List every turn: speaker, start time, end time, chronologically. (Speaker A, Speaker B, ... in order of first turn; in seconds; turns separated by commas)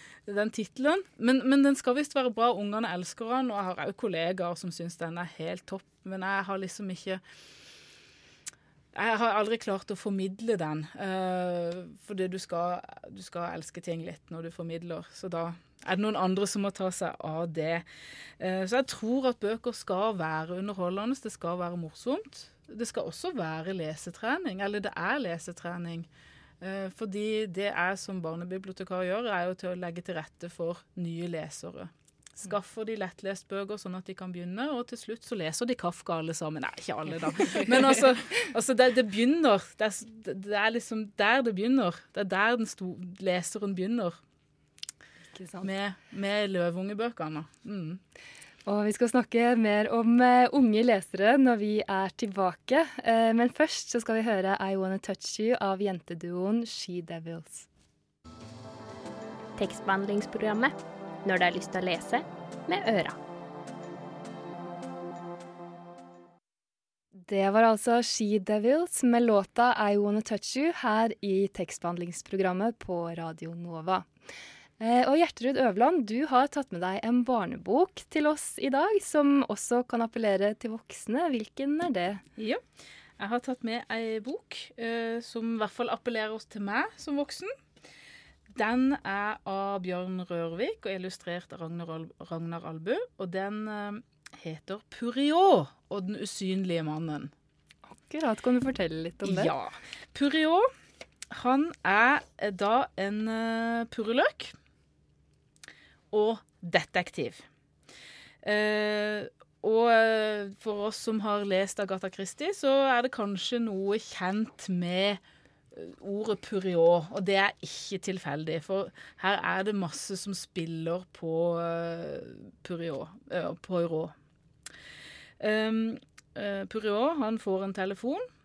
Speaker A: 0.3-7.2, Speaker A: 8.9-17.8, Speaker A: 18.4-26.1, Speaker A: 26.6-44.2, Speaker B: 45.3-45.7, Speaker A: 45.6-48.0, Speaker B: 48.6-57.7, Speaker C: 59.6-63.2, Speaker B: 67.1-74.1, Speaker B: 74.8-82.2, Speaker A: 83.2-87.5, Speaker A: 88.5-97.3, Speaker B: 97.9-99.5, Speaker A: 99.2-100.7, Speaker A: 101.3-104.5, Speaker A: 106.1-107.4, Speaker A: 108.4-115.2, Speaker A: 115.7-124.1, Speaker A: 125.4-128.2